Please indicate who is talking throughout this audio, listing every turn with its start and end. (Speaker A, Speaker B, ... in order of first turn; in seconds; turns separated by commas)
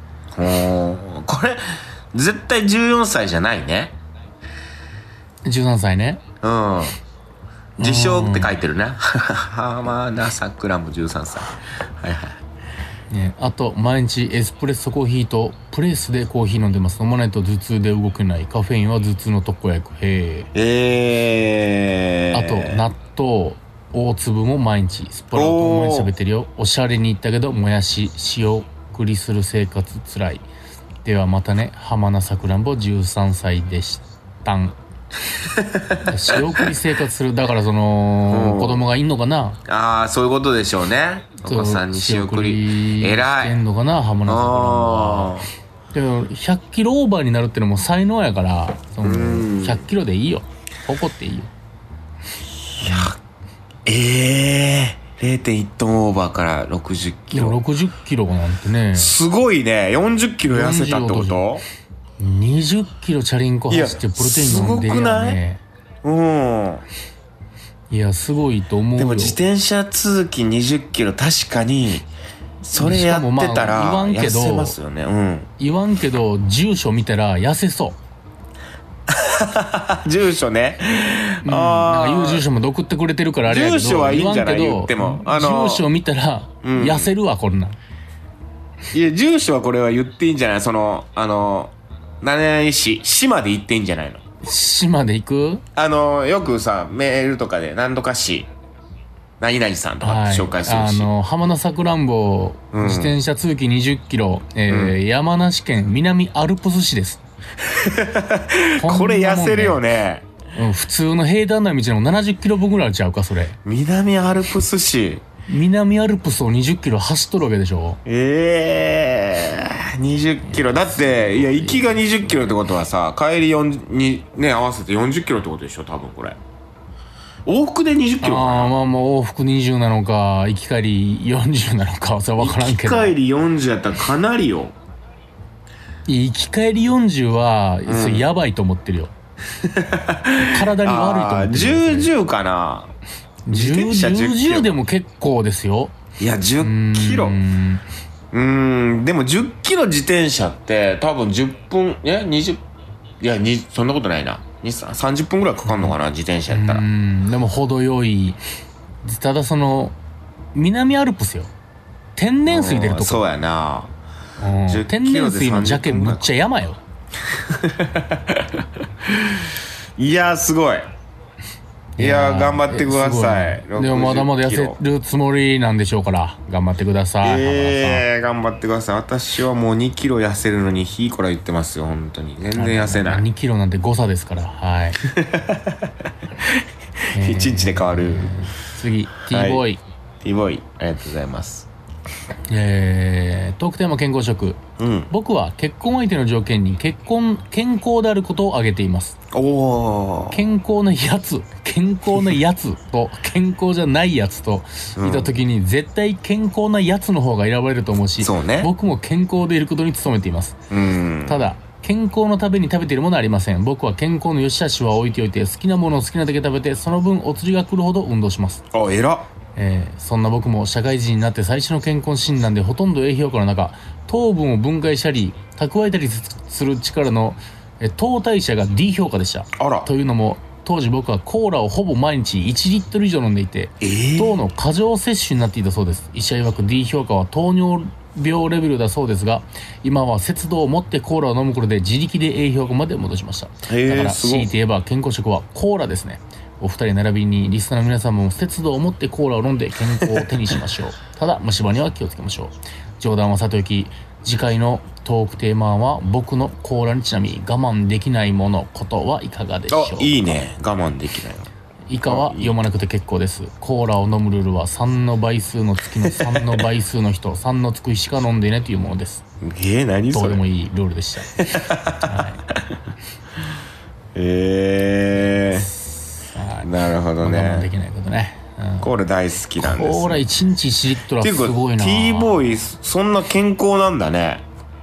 Speaker A: 0.3-4.0, Speaker B: 5.4-6.2, Speaker A: 6.4-7.0, Speaker B: 7.8-8.5, Speaker A: 7.8-12.4, Speaker B: 13.1-20.5, Speaker A: 20.5-22.8, Speaker B: 22.3-30.4, Speaker A: 25.3-26.1, Speaker B: 31.0-34.8, Speaker A: 35.4-36.7, Speaker B: 36.0-39.6, Speaker A: 38.3-38.8, Speaker A: 39.6-43.6, Speaker B: 41.4-45.4, Speaker A: 44.2-45.5, Speaker B: 45.9-51.5, Speaker A: 49.0-49.9, Speaker A: 52.7-53.2, Speaker B: 52.8-53.1, Speaker A: 53.9-57.6, Speaker B: 57.3-59.2, Speaker A: 58.9-61.6, Speaker B: 60.4-61.4, Speaker B: 62.2-65.6, Speaker A: 63.7-65.4, Speaker A: 66.0-66.8, Speaker B: 67.9-69.4, Speaker A: 69.0-72.1, Speaker A: 72.6-75.5, Speaker B: 72.8-74.8, Speaker B: 75.6-78.0, Speaker A: 79.1-82.4, Speaker B: 81.4-87.8, Speaker A: 83.5-85.9, Speaker A: 86.6-87.1, Speaker A: 88.9-94.2, Speaker B: 94.4-95.6, Speaker A: 95.7-98.5, Speaker A: 99.4-101.1, Speaker B: 100.0-107.2, Speaker A: 102.7-103.2, Speaker A: 104.7-105.0, Speaker A: 107.6-110.3, Speaker B: 108.8-109.8, Speaker B: 110.5-113.6, Speaker A: 113.6-115.2, Speaker B: 115.5-118.0, Speaker A: 118.0-126.4, Speaker B: 120.4-122.3, Speaker A: 127.5-128.7, Speaker B: 128.2-133.1, Speaker A: 132.4-134.7, Speaker B: 136.1-139.1, Speaker A: 137.9-138.3, Speaker A: 139.5-142.9, Speaker B: 140.4-142.1, Speaker B: 143.4-145.9, Speaker A: 143.5-144.8, Speaker A: 146.2-147.4, Speaker B: 146.6-147.8, Speaker A: 148.3-152.6, Speaker A: 153.2-156.8, Speaker B: 155.7-155.9, Speaker B: 156.5-158.4, Speaker B: 159.0-159.9, Speaker B: 160.5-161.5, Speaker B: 162.2-163.3, Speaker A: 162.4-163.9, Speaker B: 164.4-166.8, Speaker A: 164.7-166.3, Speaker A: 167.3-170.9, Speaker B: 172.0-178.1, Speaker A: 172.0-174.8, Speaker A: 177.2-183.3, Speaker B: 182.5-185.0, Speaker A: 185.0-188.3, Speaker B: 187.1-189.8, Speaker A: 189.3-189.6, Speaker A: 190.2-191.7, Speaker B: 192.5-199.2, Speaker A: 194.8-195.1, Speaker A: 199.3-200.4, Speaker B: 200.3-210.6, Speaker A: 205.0-205.3, Speaker A: 208.2-208.7, Speaker A: 210.7-211.5, Speaker B: 211.2-218.6, Speaker A: 218.7-219.3, Speaker B: 219.6-260.2, Speaker A: 229.6-229.9, Speaker A: 233.8-234.4, Speaker A: 243.7-244.5, Speaker A: 250.0-250.3, Speaker A: 259.7-261.5, Speaker B: 261.9-269.2, Speaker A: 262.1-262.6, Speaker A: 266.0-266.6, Speaker A: 269.4-270.4, Speaker B: 270.1-271.4, Speaker A: 271.4-272.8, Speaker B: 272.0-272.4, Speaker A: 274.1-275.7, Speaker B: 275.5-278.9, Speaker A: 276.6-277.7, Speaker A: 278.8-280.2, Speaker B: 279.6-282.5, Speaker A: 281.2-284.4